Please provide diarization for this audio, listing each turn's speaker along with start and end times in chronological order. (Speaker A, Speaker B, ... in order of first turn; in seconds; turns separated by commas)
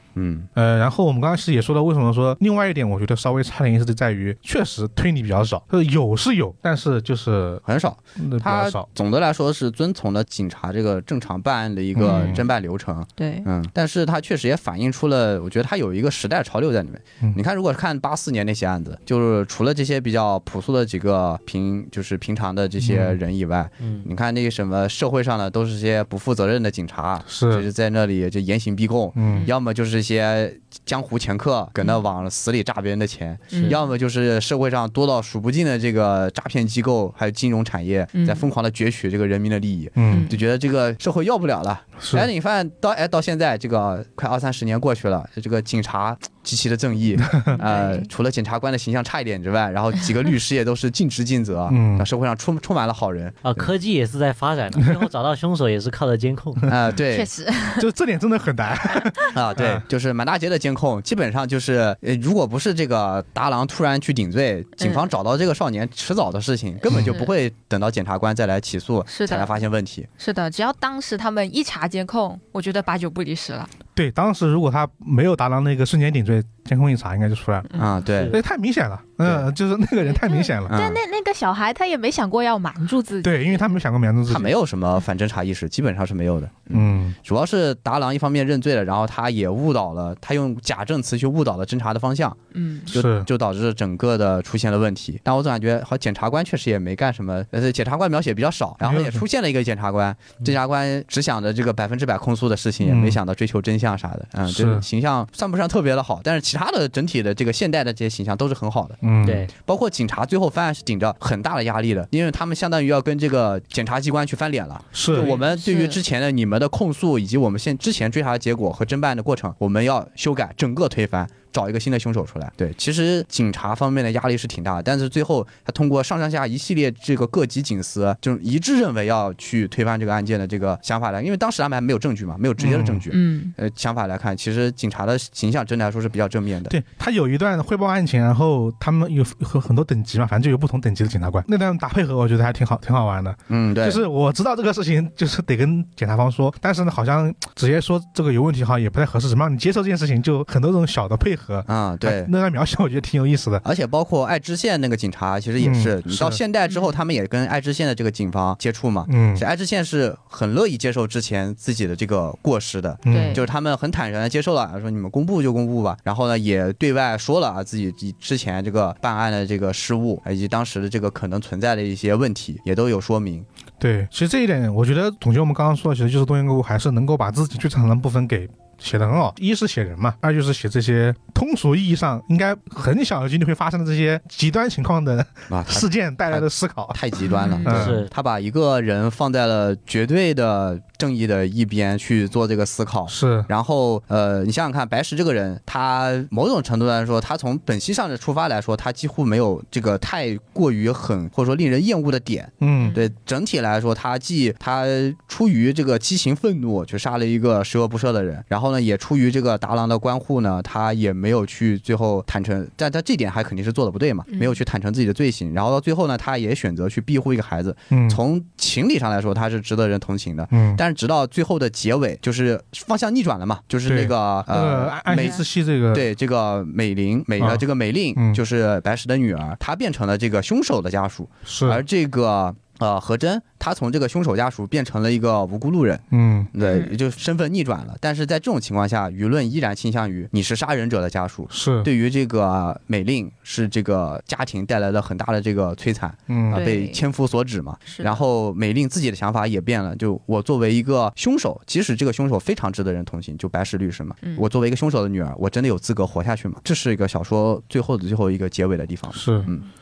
Speaker A: 0.1-0.5, Speaker B: 0.6-7.6, Speaker A: 7.7-53.7, Speaker B: 8.2-8.8, Speaker B: 12.0-12.4, Speaker C: 12.0-12.4, Speaker C: 13.2-13.5, Speaker B: 22.8-23.2, Speaker D: 23.8-24.1, Speaker B: 27.3-27.7, Speaker B: 29.1-29.5, Speaker C: 33.5-33.8, Speaker D: 33.5-33.8, Speaker C: 38.1-38.5, Speaker B: 40.0-40.3, Speaker C: 40.1-40.4, Speaker B: 42.0-42.3, Speaker C: 47.5-48.1, Speaker B: 51.7-52.1, Speaker D: 53.4-56.7, Speaker A: 56.7-57.3, Speaker C: 57.1-57.9, Speaker B: 57.8-59.9, Speaker C: 58.9-59.2, Speaker A: 59.3-70.1, Speaker C: 64.8-65.1, Speaker C: 66.8-67.3, Speaker B: 66.9-67.2, Speaker C: 69.1-69.6, Speaker C: 70.2-73.7, Speaker B: 74.0-77.7, Speaker A: 77.8-78.4, Speaker D: 78.0-78.4, Speaker B: 78.2-80.8, Speaker C: 80.0-83.7, Speaker A: 80.7-81.0, Speaker B: 83.2-84.5, Speaker A: 84.3-92.4, Speaker B: 86.7-87.2, Speaker C: 92.5-92.9, Speaker B: 92.9-93.3, Speaker A: 92.9-109.0, Speaker B: 98.8-99.2, Speaker B: 102.8-103.2, Speaker B: 104.5-104.9, Speaker B: 109.0-109.5, Speaker D: 109.2-109.5, Speaker A: 109.5-136.8, Speaker B: 114.9-115.3, Speaker C: 115.1-116.0, Speaker B: 132.6-133.1, Speaker C: 133.1-133.6, Speaker B: 136.7-153.6, Speaker A: 143.5-144.0, Speaker A: 151.7-152.3, Speaker A: 153.6-173.5, Speaker B: 155.6-156.4, Speaker C: 156.7-157.0, Speaker B: 159.1-159.4, Speaker B: 163.1-163.4, Speaker C: 163.1-163.5, Speaker B: 173.8-187.1, Speaker A: 185.5-236.0, Speaker C: 187.3-187.7, Speaker D: 187.6-188.1, Speaker B: 187.6-188.0, Speaker B: 193.1-193.5, Speaker B: 202.6-203.0, Speaker C: 202.8-203.1, Speaker C: 214.3-214.6, Speaker B: 217.9-218.2, Speaker B: 220.5-220.8, Speaker B: 223.9-226.1, Speaker C: 225.1-225.4, Speaker B: 227.4-227.6, Speaker B: 228.2-228.4, Speaker B: 231.5-231.8, Speaker B: 236.1-236.5, Speaker A: 236.5-259.7, Speaker C: 236.6-236.9, Speaker B: 241.5-241.9, Speaker B: 246.3-246.7, Speaker C: 246.5-247.0, Speaker C: 247.9-248.2, Speaker B: 259.1-259.5